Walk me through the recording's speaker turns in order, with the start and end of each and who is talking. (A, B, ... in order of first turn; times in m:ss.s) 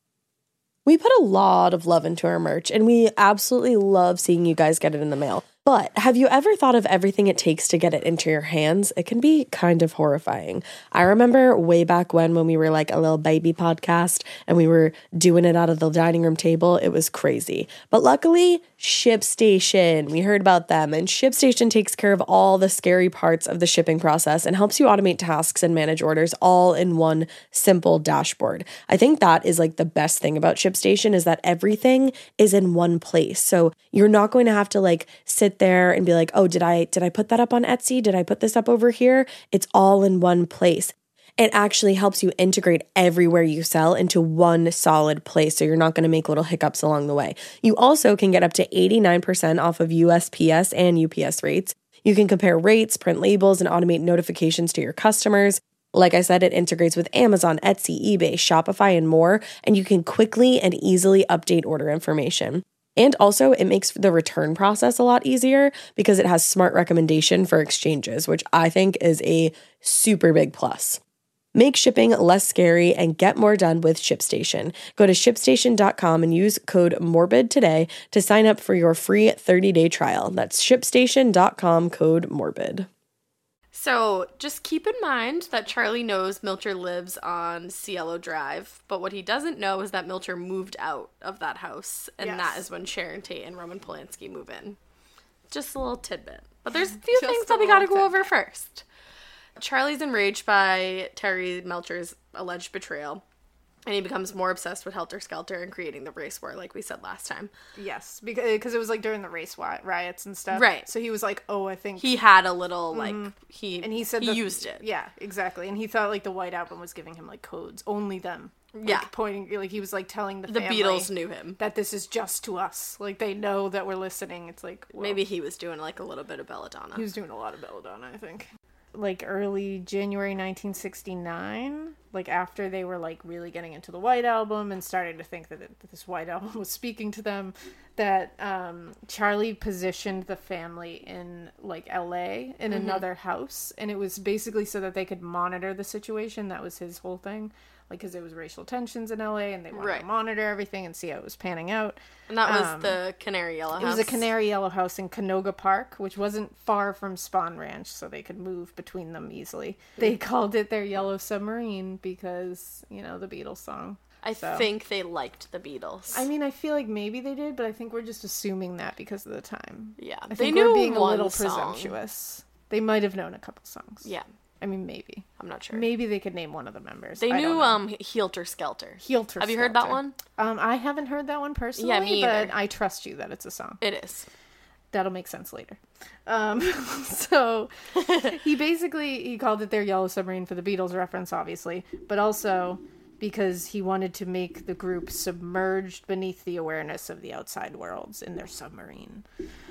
0:00.9-1:11.0 A
1:11.6-1:22.9 A
1:23.7-1:34.8 B
1:32.2-1:32.6 C
1:35.5-1:38.8 B
1:37.0-1:38.4 C
1:39.6-1:43.2 B
1:43.9-1:47.5 B
1:47.8-1:52.2 C
1:50.5-1:50.9 B
1:52.0-1:54.9 B
1:52.9-2:05.2 C
1:58.7-1:59.1 B
2:00.5-2:01.6 B
2:05.0-2:07.1 B
2:07.0-2:33.0 C
2:22.7-2:23.0 B
2:29.7-2:30.1 B
2:32.3-2:34.3 B
2:33.8-2:44.7 C
2:44.2-2:46.3 B
2:46.1-2:54.1 C
2:50.0-2:52.0 B
2:54.6-2:57.8 C
2:55.4-2:56.0 B
2:57.2-3:00.2 B
2:59.0-3:03.8 C
3:01.8-3:02.6 B
3:03.8-3:04.3 B
3:04.9-3:19.2 C